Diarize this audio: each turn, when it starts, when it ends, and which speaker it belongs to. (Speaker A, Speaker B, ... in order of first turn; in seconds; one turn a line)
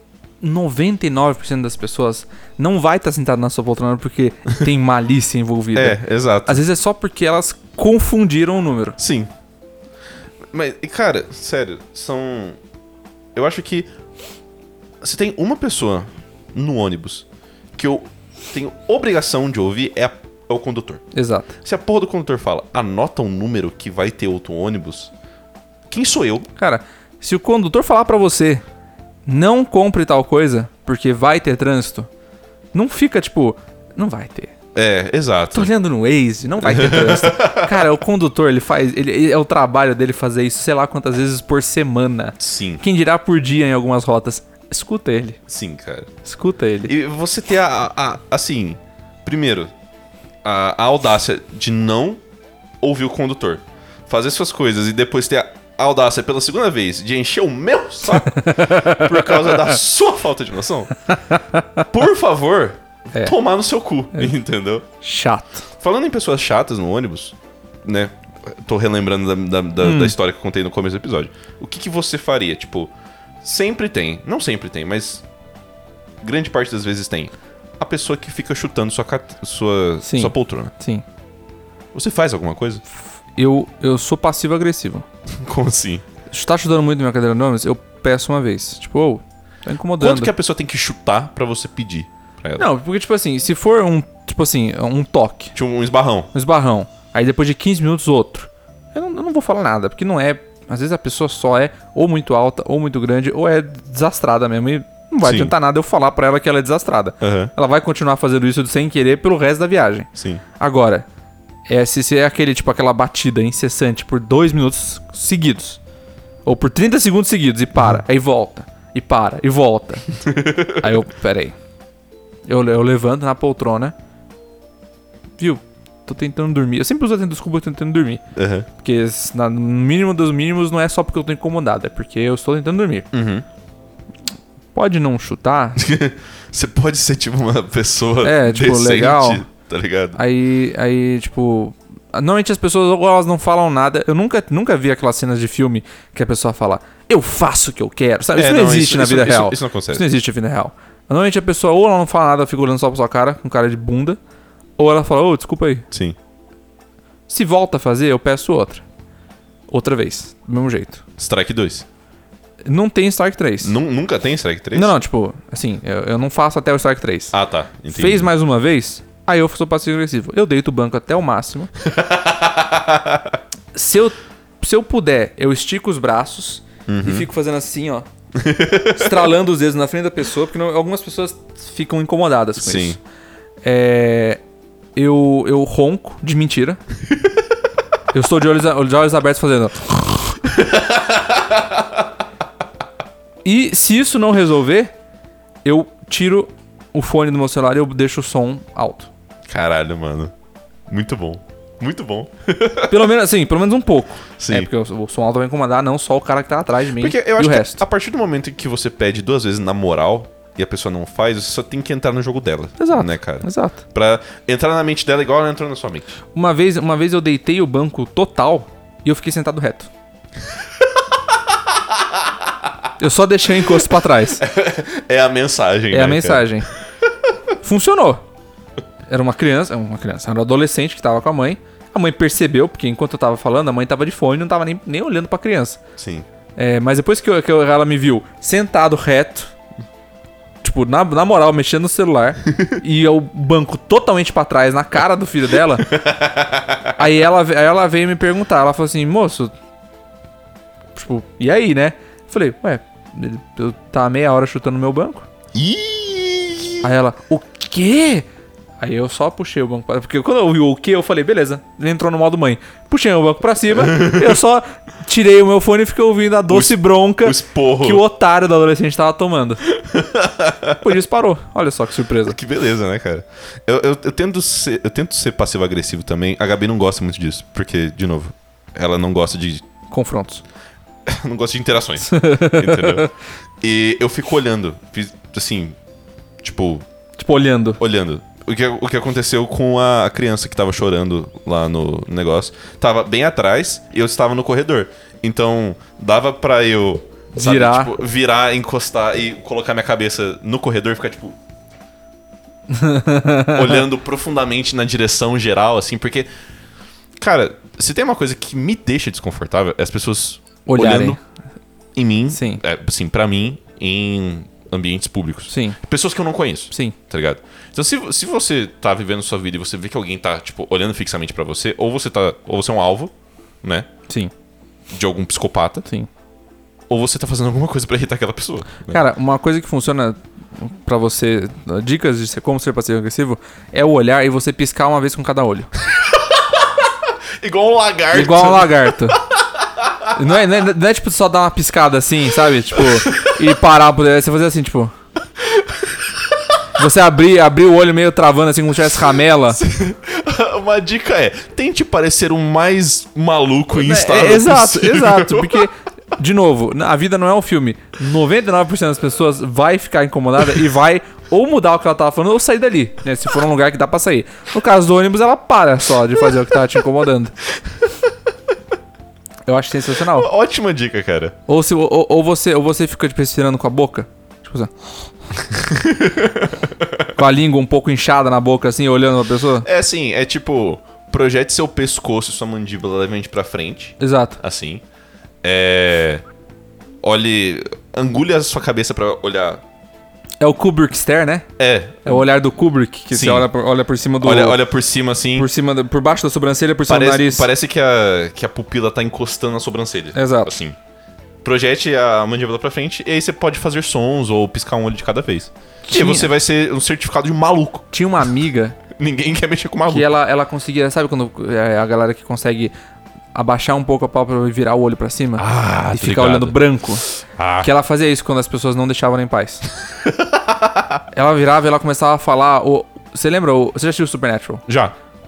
Speaker A: 0.4-9.0
Speaker B: 5.8-6.6
Speaker B: 9.0-9.3
Speaker B: 10.5-12.6
Speaker B: 13.3-13.9
Speaker B: 15.0-21.0
Speaker A: 21.1-21.5
Speaker B: 21.6-25.1
Speaker B: 25.9-26.5
Speaker A: 26.6-28.6
Speaker A: 29.3-32.1
Speaker A: 32.7-34.5
Speaker B: 34.8-35.7
Speaker A: 35.5-45.4
Speaker B: 36.6-37.9
Speaker B: 42.4-42.8
Speaker B: 45.5-46.1
Speaker A: 46.2-46.9
Speaker B: 46.9-49.7
Speaker B: 50.4-52.2
Speaker B: 52.8-60.9
Speaker A: 58.3-59.6
Speaker A: 61.1-61.8
Speaker B: 61.9-64.9
Speaker A: 65.0-65.6
Speaker B: 65.8-72.9
Speaker A: 69.8-70.2
Speaker B: 73.4-75.2
Speaker B: 76.2-80.7
Speaker A: 80.0-81.0
Speaker B: 81.9-82.8
Speaker A: 83.4-85.0
Speaker B: 85.3-86.0
Speaker A: 86.3-90.3
Speaker B: 90.0-92.7
Speaker A: 92.6-95.5
Speaker B: 95.5-96.3
Speaker A: 96.3-111.1
Speaker B: 105.2-105.5
Speaker B: 107.2-107.5
Speaker B: 110.2-110.4
Speaker A: 111.7-115.8
Speaker A: 116.5-120.1
Speaker B: 120.2-120.8
Speaker A: 120.7-121.5
Speaker A: 122.5-123.9
Speaker A: 125.4-128.2
Speaker B: 128.3-128.7
Speaker A: 128.8-133.1
Speaker B: 133.1-133.5
Speaker A: 134.8-135.8
Speaker B: 135.8-140.2
Speaker A: 138.2-139.4
Speaker A: 140.2-154.2
Speaker B: 148.3-150.1
Speaker A: 154.8-155.8
Speaker B: 155.9-156.2
Speaker A: 157.3-158.8
Speaker A: 159.7-161.0
Speaker B: 161.2-161.9
Speaker A: 162.7-163.8
Speaker B: 163.6-164.9
Speaker A: 164.7-167.3
Speaker B: 167.3-168.3
Speaker A: 167.9-171.7
Speaker B: 171.8-173.4
Speaker A: 173.7-178.1
Speaker B: 176.9-177.3
Speaker B: 178.4-179.3
Speaker A: 178.9-183.0
Speaker B: 182.6-183.0
Speaker A: 183.6-184.4
Speaker A: 185.0-186.8
Speaker A: 188.1-190.5
Speaker B: 190.6-191.8
Speaker A: 193.4-194.9
Speaker A: 195.7-199.1
Speaker B: 199.5-200.3
Speaker B: 200.9-203.1
Speaker A: 202.9-207.8
Speaker B: 204.4-204.7
Speaker B: 206.9-216.2
Speaker A: 212.8-213.8
Speaker A: 216.3-219.9
Speaker B: 221.7-222.2
Speaker A: 223.0-224.4
Speaker B: 224.4-226.5
Speaker A: 225.9-226.7
Speaker A: 227.6-228.2
Speaker A: 229.1-235.8
Speaker B: 236.0-236.3
Speaker A: 236.6-239.5
Speaker A: 240.6-246.0
Speaker B: 245.9-246.9
Speaker A: 247.0-249.5
Speaker A: 251.0-255.3
Speaker B: 255.5-256.9
Speaker A: 256.8-258.3
Speaker A: 258.8-269.7
Speaker B: 263.8-264.4
Speaker B: 266.5-268.0
Speaker B: 269.7-270.8
Speaker A: 270.8-272.4
Speaker B: 272.2-279.6
Speaker A: 279.9-280.4
Speaker B: 281.1-283.1
Speaker A: 282.0-283.1
Speaker B: 283.6-285.8
Speaker B: 286.4-286.9
Speaker A: 287.2-287.8
Speaker B: 287.8-301.4
Speaker A: 297.4-297.9
Speaker A: 302.7-303.9
Speaker B: 303.5-306.3
Speaker B: 307.2-311.2
Speaker A: 310.7-311.2
Speaker B: 311.9-323.1
Speaker A: 312.3-312.6
Speaker A: 315.5-315.8
Speaker B: 323.6-323.9
Speaker B: 324.9-325.9
Speaker B: 326.9-329.0
Speaker A: 328.9-335.7
Speaker B: 336.0-340.1
Speaker A: 338.1-339.2
Speaker A: 340.1-344.9
Speaker B: 342.8-343.4
Speaker B: 345.4-346.1
Speaker A: 346.8-349.6
Speaker B: 349.6-355.7
Speaker A: 353.8-367.4
Speaker A: 369.5-370.3
Speaker B: 370.1-371.4
Speaker A: 371.5-374.7
Speaker B: 375.4-377.1
Speaker A: 377.2-379.7
Speaker B: 379.6-384.8
Speaker A: 384.0-384.4
Speaker B: 385.4-386.2
Speaker B: 387.0-389.6
Speaker A: 390.4-391.5
Speaker B: 391.6-392.2
Speaker A: 392.1-394.6
Speaker B: 393.1-393.5
Speaker B: 394.2-395.5
Speaker A: 395.4-397.5
Speaker B: 396.9-400.8
Speaker A: 400.1-400.6
Speaker B: 401.4-407.9
Speaker A: 405.9-406.3
Speaker A: 407.9-408.8
Speaker B: 408.9-410.1
Speaker A: 409.9-412.7
Speaker A: 413.3-417.1
Speaker B: 415.4-416.6
Speaker B: 417.2-417.7
Speaker A: 417.6-419.7
Speaker B: 420.1-420.9
Speaker A: 421.1-424.6
Speaker B: 424.7-424.9